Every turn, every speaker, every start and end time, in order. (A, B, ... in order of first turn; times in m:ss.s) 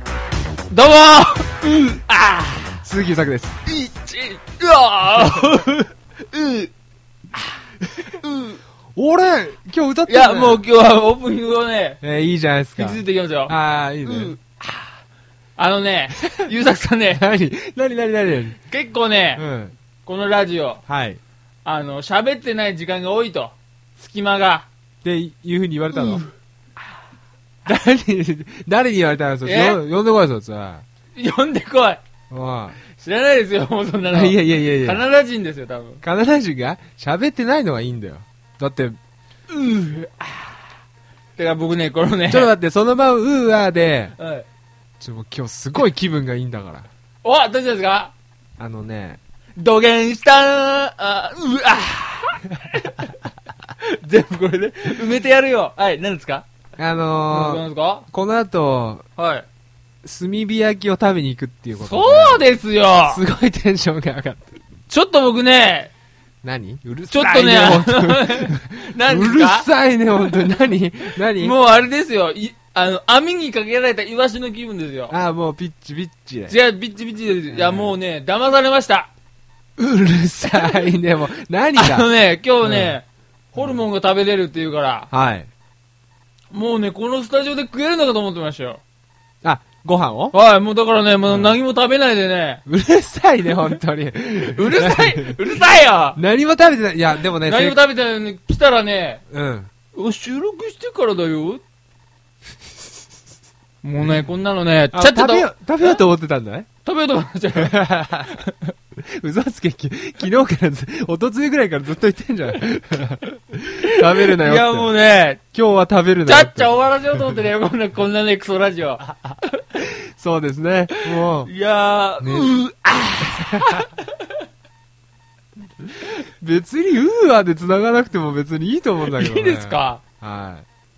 0:00.7-0:02.8 A
0:02.8-0:03.6 B
0:03.7-0:06.7 A
0:05.2-0:05.7 B
0:08.0-0:08.6 A
0:09.0-0:10.6 B
0:10.1-0:12.0 A
0:12.0-0:14.4 B
0:12.8-0:14.8 A
0:15.6-0:17.2 A
0:16.2-0:16.5 B
0:17.1-0:18.6 B
0:18.7-0:19.4 A
0:19.4-0:19.8 B
0:20.0-0:20.8 A
0:20.9-0:21.2 B
0:21.6-0:24.7 A
0:25.0-0:26.2 B
0:25.9-0:26.3 A
0:27.6-0:30.9 B
0:29.4-0:29.8 A
0:31.2-0:32.0 A
0:32.3-0:32.8 B
0:32.9-0:36.0 A
0:34.1-0:35.0 B
0:36.0-0:39.0 B
0:39.5-0:40.6 A
0:41.4-0:42.5 A
0:42.3-0:44.2 B
0:44.2-0:44.5 A
0:45.0-0:46.9 B
0:47.2-0:48.1 A
0:48.6-0:49.2 B
0:49.6-0:53.3 A
0:53.8-0:56.5 A
0:56.8-0:59.0 B
0:57.3-0:58.1 A
0:59.2-0:59.5 A
1:00.0-1:02.5 B
1:01.8-1:03.2 A
1:03.1-1:04.6 B
1:04.9-1:05.9 A
1:06.4-1:11.6 B
1:07.1-1:09.7 A
1:11.2-1:15.1 A
1:15.1-1:16.6 B
1:16.5-1:19.1 A
1:17.5-1:18.0 B
1:19.8-1:22.1 B
1:20.5-1:20.8 A
1:21.8-1:25.1 A
1:22.6-1:23.0 B
1:23.6-1:23.8 B
1:25.1-1:25.5 B
1:26.5-1:28.8 A
1:29.4-1:30.4 B
1:30.3-1:32.6 A
1:31.3-1:31.6 B
1:32.7-1:35.4 B
1:34.5-1:36.2 A
1:36.2-1:37.8 B
1:37.4-1:39.2 A
1:39.3-1:39.7 B
1:39.9-1:41.6 A
1:43.8-1:46.0 A
1:44.9-1:46.7 B
1:46.8-1:48.7 A
1:47.6-1:48.4 B
1:49.0-1:54.9 B
1:53.8-1:55.4 A
1:55.5-1:57.2 B
1:56.3-1:59.6 A
1:59.8-2:01.5 B
2:01.0-2:04.3 A
2:02.2-2:02.5 B
2:03.2-2:03.9 B
2:06.0-2:10.7 B
2:09.0-2:10.0 A